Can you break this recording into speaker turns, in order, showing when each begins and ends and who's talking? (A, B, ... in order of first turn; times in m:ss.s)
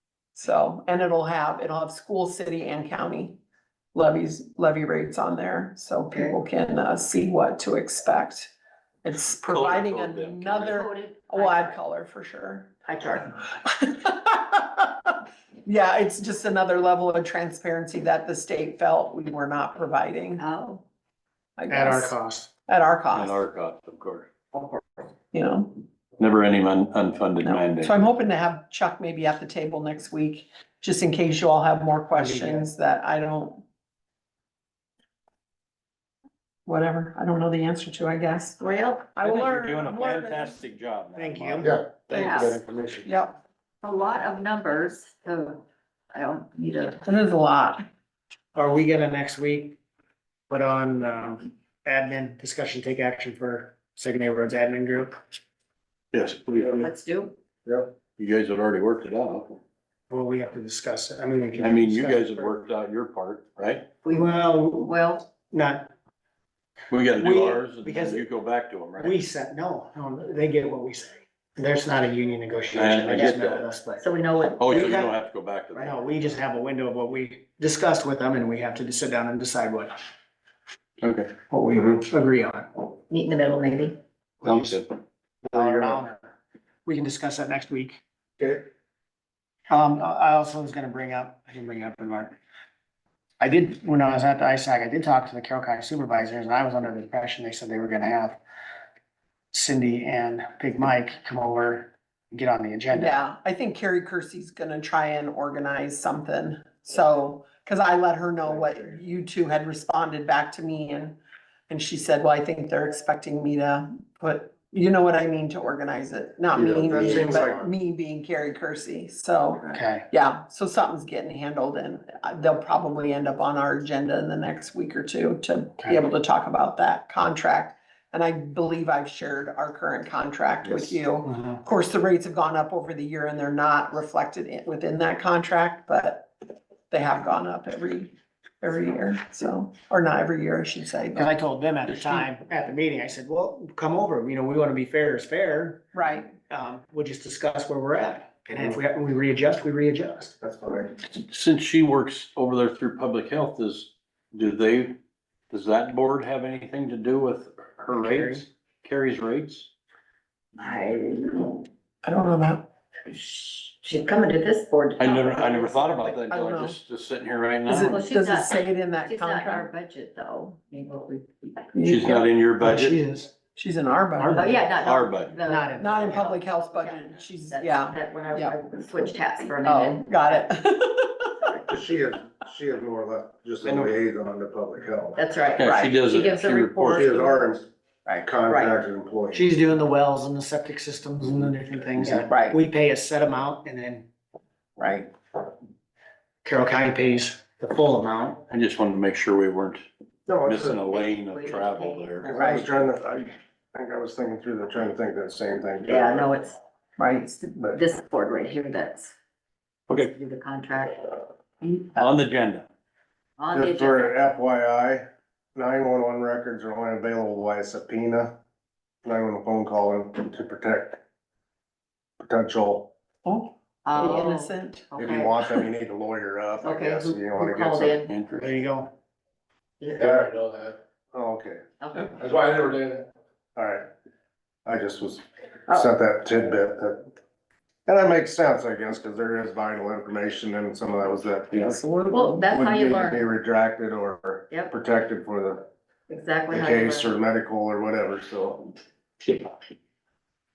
0:00.4-0:03.4 A
0:04.0-0:08.5 A
0:06.1-0:06.4 B
0:09.0-0:12.7 A
0:09.5-0:10.8 C
0:10.6-0:11.8 B
0:12.9-0:13.3 B
0:13.4-0:20.4 A
0:20.4-0:20.8 B
0:21.6-0:22.2 A
0:21.7-0:22.5 D
0:22.7-0:23.4 A
0:23.1-0:24.3 C
0:25.3-0:25.8 A
0:26.2-0:27.9 C
0:27.4-0:33.6 A
0:32.2-0:32.7 D
0:36.7-0:40.6 A
0:38.6-0:39.1 B
0:39.2-0:41.7 C
0:41.2-0:41.8 D
0:41.6-0:43.1 E
0:42.1-0:42.6 B
0:42.1-0:42.5 A
0:43.0-0:43.4 A
0:43.8-0:47.0 B
0:47.0-0:47.8 A
0:48.6-0:49.8 D
0:50.5-0:55.2 D
0:56.1-0:56.9 C
0:56.8-0:57.4 B
0:57.7-0:57.9 F
0:58.1-0:59.6 C
1:00.1-1:02.4 D
1:01.6-1:03.9 C
1:04.0-1:05.3 B
1:04.1-1:05.9 D
1:06.9-1:09.2 C
1:07.2-1:08.2 D
1:09.0-1:14.0 D
1:12.7-1:13.6 C
1:13.1-1:15.1 B
1:14.6-1:15.9 C
1:14.7-1:15.2 D
1:15.8-1:20.0 D
1:21.0-1:21.4 C
1:21.5-1:22.8 D
1:23.1-1:24.0 B
1:24.4-1:24.8 D
1:24.4-1:24.8 C
1:25.4-1:26.3 D
1:26.8-1:28.6 D
1:29.7-1:32.4 D
1:33.4-1:38.4 D
1:39.5-1:43.2 D
1:42.9-1:51.2 A
1:48.5-1:49.0 F
1:51.7-2:16.3 A
1:56.5-1:57.7 F
1:59.7-2:00.0 D
2:10.6-2:10.9 F
2:11.2-2:11.6 D
2:16.9-2:21.3 A
2:21.1-2:30.3 D
2:25.9-2:26.3 A
2:30.4-2:31.0 F
2:31.2-2:35.0 C
2:35.5-2:39.7 C
2:37.9-2:38.4 D
2:40.6-2:41.6 B
2:42.0-2:42.7 A
2:43.1-2:46.2 B
2:45.0-2:48.0 C
2:46.3-2:46.8 A
2:47.7-2:49.7 A
2:47.7-2:51.7 B
2:51.7-2:52.3 A
2:51.8-2:53.0 C
2:52.6-2:53.3 D
2:53.6-2:54.6 A
2:54.2-2:54.6 D
2:54.3-3:00.5 B
2:54.8-2:55.4 C
2:55.5-2:56.3 D
2:55.8-2:58.6 A
2:59.6-3:01.4 A
3:01.4-3:01.7 B
3:01.7-3:05.2 F
3:03.6-3:03.9 D
3:05.2-3:07.5 B
3:05.6-3:07.2 C
3:06.8-3:09.4 F
3:08.1-3:08.8 B
3:09.3-3:14.1 D
3:12.3-3:12.5 B
3:16.4-3:18.4 D
3:18.5-3:19.8 C
3:20.3-3:22.1 B
3:20.4-3:22.3 C
3:22.2-3:22.6 A
3:22.3-3:26.3 F
3:25.8-3:26.6 B
3:27.0-3:27.3 A
3:27.2-3:29.1 B
3:30.0-3:31.1 B
3:32.0-3:32.7 C
3:33.4-3:34.2 B
3:33.5-3:38.4 F
3:39.0-3:41.0 F
3:42.2-3:42.9 F
3:43.2-3:44.9 A
3:43.8-3:45.6 B
3:45.0-3:48.0 F
3:46.6-3:48.1 B
3:48.0-3:48.5 C
3:48.3-3:48.9 D
3:49.8-3:50.1 B
3:49.9-3:50.8 E
3:51.1-3:51.6 F
3:51.8-3:52.2 B
3:52.2-3:53.1 E
3:53.6-3:53.9 F
3:54.6-3:57.1 F
3:57.9-4:01.8 F
4:01.5-4:02.5 A
4:02.1-4:03.2 B
4:02.5-4:05.6 F
4:06.1-4:07.2 B
4:06.5-4:08.8 F